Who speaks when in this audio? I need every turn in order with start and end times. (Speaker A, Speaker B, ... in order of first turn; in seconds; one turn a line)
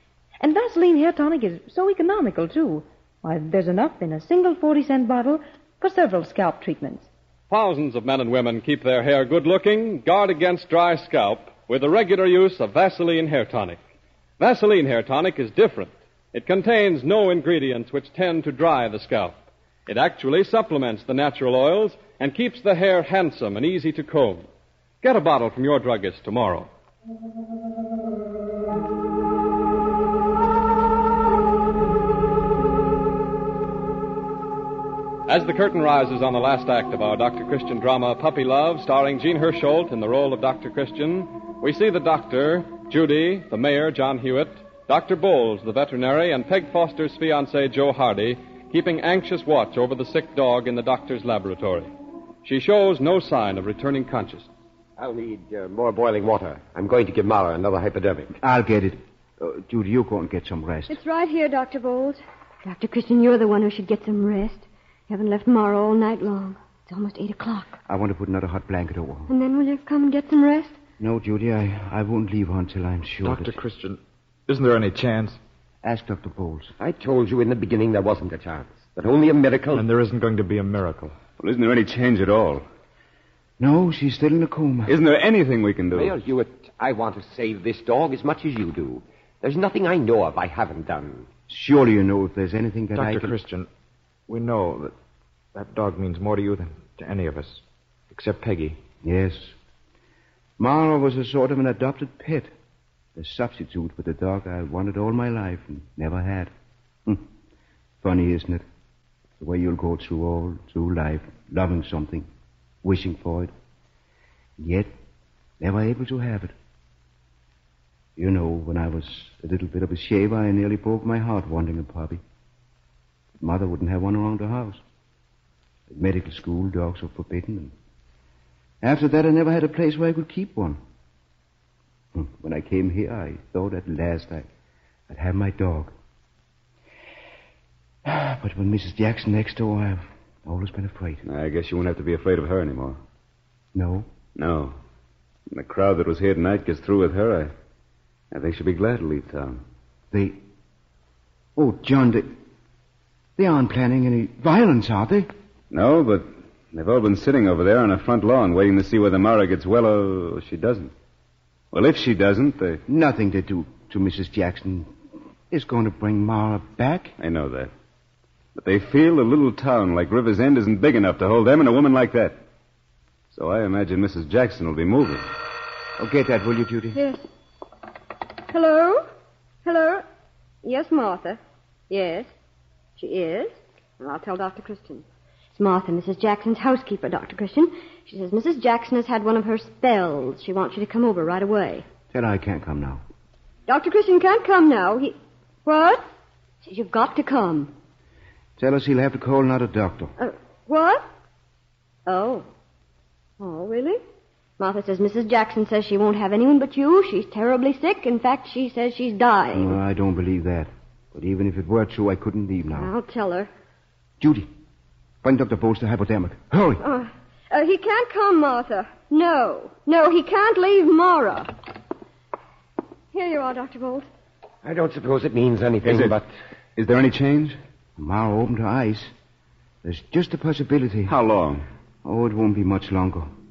Speaker A: 0.4-7.1
Speaker B: 7.5-13.8
Speaker B: 14.4-24.5
Speaker B: 25.0-26.7
Speaker B: 35.3-51.9
Speaker B: 52.4-54.5
Speaker C: 55.0-58.4
Speaker D: 58.4-61.0
Speaker E: 60.9-67.8
Speaker D: 67.9-69.3
Speaker E: 69.3-70.8
Speaker D: 71.0-73.6
Speaker F: 73.2-75.4
Speaker D: 75.8-76.7
Speaker C: 76.8-79.9
Speaker F: 79.7-81.2
Speaker G: 81.4-82.7
Speaker D: 83.6-84.9
Speaker G: 84.9-86.2
Speaker C: 85.9-91.3
Speaker D: 91.5-93.4
Speaker F: 93.0-93.7
Speaker F: 94.3-94.9
Speaker F: 95.5-98.8
Speaker D: 99.0-99.5
Speaker D: 100.6-102.5
Speaker D: 103.2-106.5
Speaker D: 108.0-108.7
Speaker D: 109.4-112.3
Speaker D: 112.8-113.5
Speaker D: 114.6-114.9
Speaker D: 115.6-116.5
Speaker D: 118.2-122.2
Speaker D: 123.4-124.8
Speaker D: 125.9-127.7
Speaker D: 128.8-130.8
Speaker D: 132.1-134.5
Speaker D: 135.1-135.9
Speaker D: 138.1-141.2
Speaker G: 141.2-143.0
Speaker D: 143.8-144.1
Speaker G: 144.4-144.8
Speaker G: 145.5-147.5
Speaker G: 148.3-149.6
Speaker D: 150.1-150.4
Speaker D: 151.6-152.3
Speaker D: 153.4-155.3
Speaker G: 155.7-160.9
Speaker G: 161.7-162.8
Speaker D: 162.9-164.9
Speaker D: 165.5-167.2
Speaker G: 167.2-167.7
Speaker G: 168.6-172.4
Speaker G: 173.3-175.3
Speaker D: 176.0-177.0
Speaker E: 176.9-177.2
Speaker E: 178.5-179.1
Speaker E: 179.6-180.1
Speaker E: 180.6-181.4
Speaker E: 181.9-182.3
Speaker E: 183.0-191.9
Speaker D: 192.1-193.0
Speaker E: 193.7-196.1
Speaker E: 196.6-197.7
Speaker D: 198.6-200.1
Speaker E: 200.2-201.1
Speaker E: 202.1-202.5
Speaker E: 203.4-204.0
Speaker E: 204.6-209.8
Speaker D: 209.5-212.9
Speaker E: 212.7-213.5
Speaker D: 214.2-214.5
Speaker D: 215.2-216.8
Speaker E: 216.8-221.5
Speaker E: 223.1-224.1
Speaker C: 224.6-226.3
Speaker G: 225.8-226.2
Speaker G: 226.8-227.6
Speaker D: 228.0-229.1
Speaker D: 229.8-231.2
Speaker G: 231.1-231.7
Speaker D: 232.0-233.3